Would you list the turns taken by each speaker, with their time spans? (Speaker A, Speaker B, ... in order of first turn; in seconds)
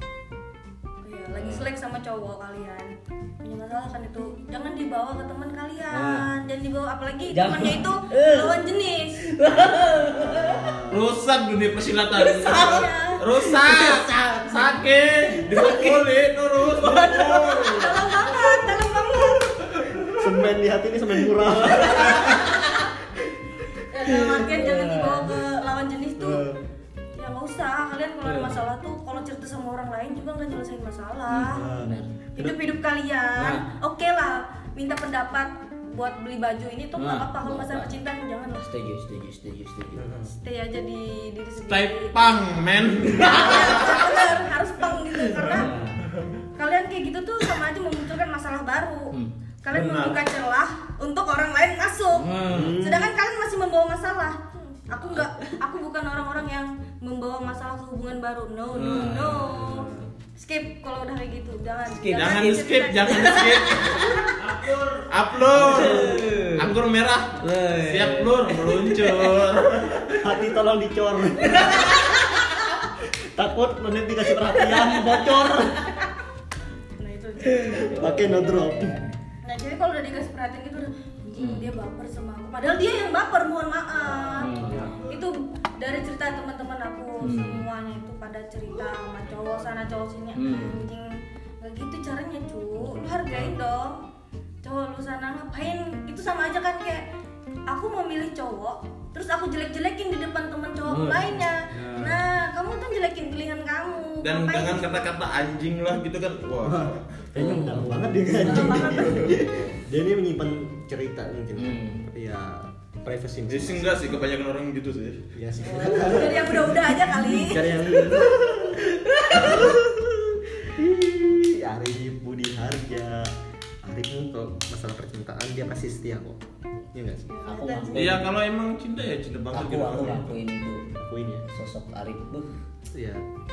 Speaker A: 1.0-9.2, 12.4-13.2, 17.1-19.5, 22.0-22.6, 23.9-26.4, 27.1-31.7, 32.3-38.7, 40.4-42.1, 43.1-45.7, 46.5-64.3, 77.0-78.2, 79.4-94.0, 94.6-97.0, 97.7-105.1, 108.3-109.4, 115.7-118.5, 127.3-128.2
Speaker B: 1.4-1.7, 5.9-6.3, 7.3-8.6, 9.2-10.7, 12.1-16.1, 16.6-18.7, 21.4-22.6, 24.0-25.4, 28.2-28.6, 31.3-32.1, 33.4-33.6, 37.0-38.0, 38.6-40.0, 43.1-44.0, 45.3-46.0, 52.1-52.8, 55.1-55.5, 58.7-59.5, 61.9-64.3, 65.5-66.7, 67.4-69.4, 71.4-72.7, 74.5-75.5, 77.5-79.1, 81.3-81.7, 84.4-85.0, 87.2-87.6, 90.3-90.8, 92.8-93.5, 100.8-101.3, 107.3-109.8, 111.6-112.0, 115.6-116.4, 118.0-119.8, 127.5-128.2, 129.5-130.8, 131.4-132.5
Speaker C: 10.1-11.0, 20.1-22.5, 26.2-26.6, 31.4-32.6, 40.0-40.3, 52.5-53.1, 59.3-60.1, 70.2-72.2, 73.3-75.9, 77.7-79.0, 101.7-102.2, 106.6-114.0, 115.3-118.7, 119.3-123.3, 123.8-126.4, 126.9-127.3, 130.9-131.4, 132.9-133.2
Speaker D: 10.9-18.0, 41.6-44.4, 49.7-50.2, 62.1-70.3, 104.2-107.2, 113.5-115.2, 127.9-130.3